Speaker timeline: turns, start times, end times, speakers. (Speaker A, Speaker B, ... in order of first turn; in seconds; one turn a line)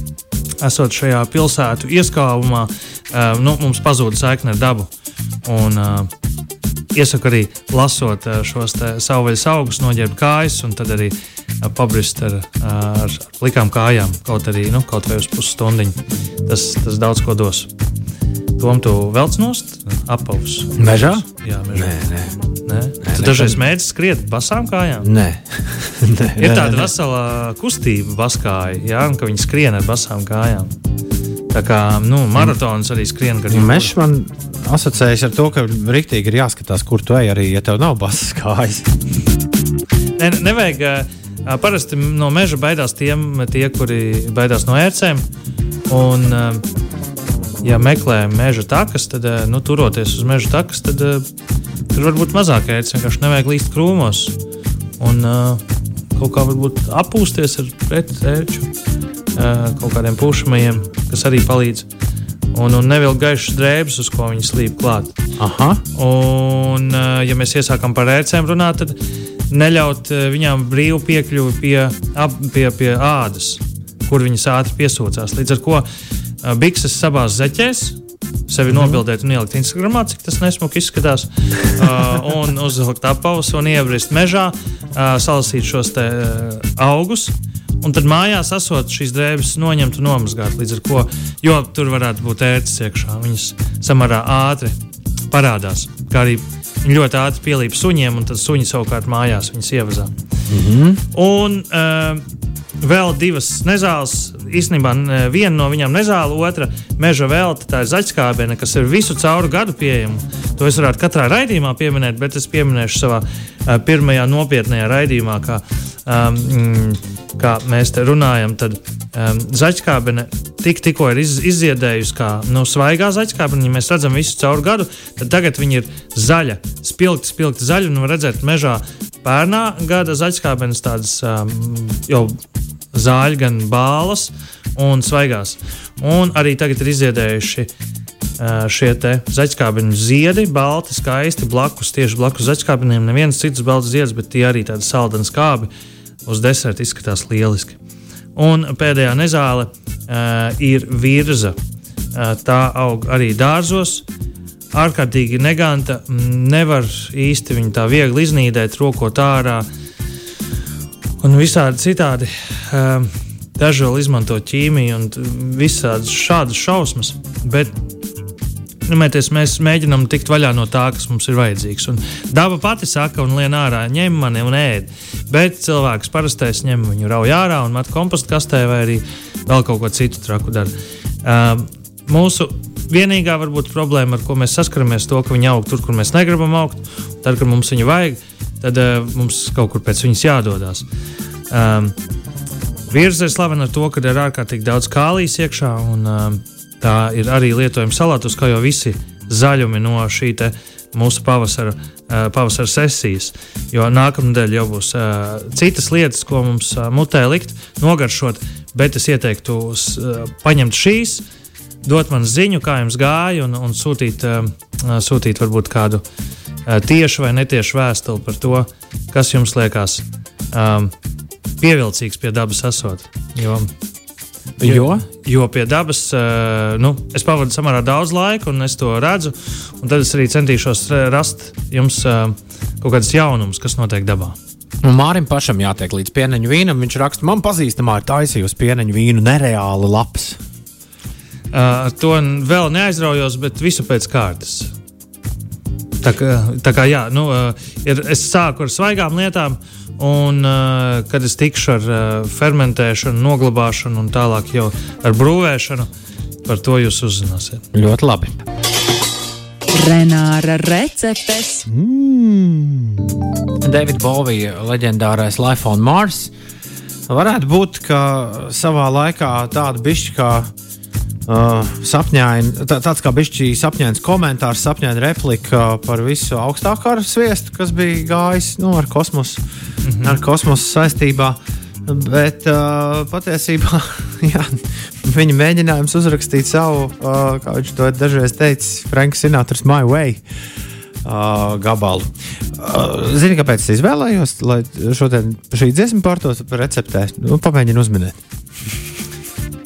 Speaker A: 0.6-4.9
Speaker A: 5.5-6.1
Speaker A: 6.9-17.7
Speaker A: 18.6-22.0
Speaker B: 20.8-22.4
Speaker A: 22.6-25.1
Speaker B: 23.0-23.6
Speaker B: 25.0-26.9
Speaker A: 26.4-30.7
Speaker A: 31.5-33.9
Speaker B: 33.5-38.9
Speaker A: 40.2-45.2
Speaker A: 45.9-46.6
Speaker A: 47.6-51.2
Speaker A: 51.9-54.4
Speaker A: 55.0-55.6
Speaker A: 56.2-58.7
Speaker A: 59.4-61.9
Speaker A: 62.5-65.2
Speaker B: 65.4-65.8
Speaker A: 66.0-69.0
Speaker A: 69.5-75.9
Speaker A: 76.4-94.7
Speaker A: 95.3-100.1
Speaker B: 100.5-101.0
Speaker A: 101.1-102.2
Speaker A: 102.8-132.4
Speaker A: 132.9-137.7
Speaker A: 138.4-145.7
Speaker A: 146.3-147.8
Speaker A: 148.4-151.6
Speaker A: 152.2-154.1
Speaker A: 154.7-159.7
Speaker A: 161.2-167.7
Speaker A: 168.9-180.7
Speaker A: 181.2-190.9
Speaker A: 191.5-191.9
Speaker A: 192.9-211.2
Speaker A: 211.8-216.0
Speaker A: 216.7-220.9
Speaker A: 221.6-223.7
Speaker B: 224.6-225.1
Speaker A: 224.6-234.4
Speaker B: 234.8-240.4
Speaker A: 241.5-244.7
Speaker A: 246.0-255.9
Speaker A: 256.4-257.6
Speaker B: 257.7-258.4
Speaker C: 259.7-261.7
Speaker B: 261.7-263.1
Speaker B: 263.6-266.3
Speaker B: 267.1-270.5
Speaker B: 271.3-279.4
Speaker A: 279.9-280.2
Speaker B: 280.0-290.2
Speaker B: 291.1-298.2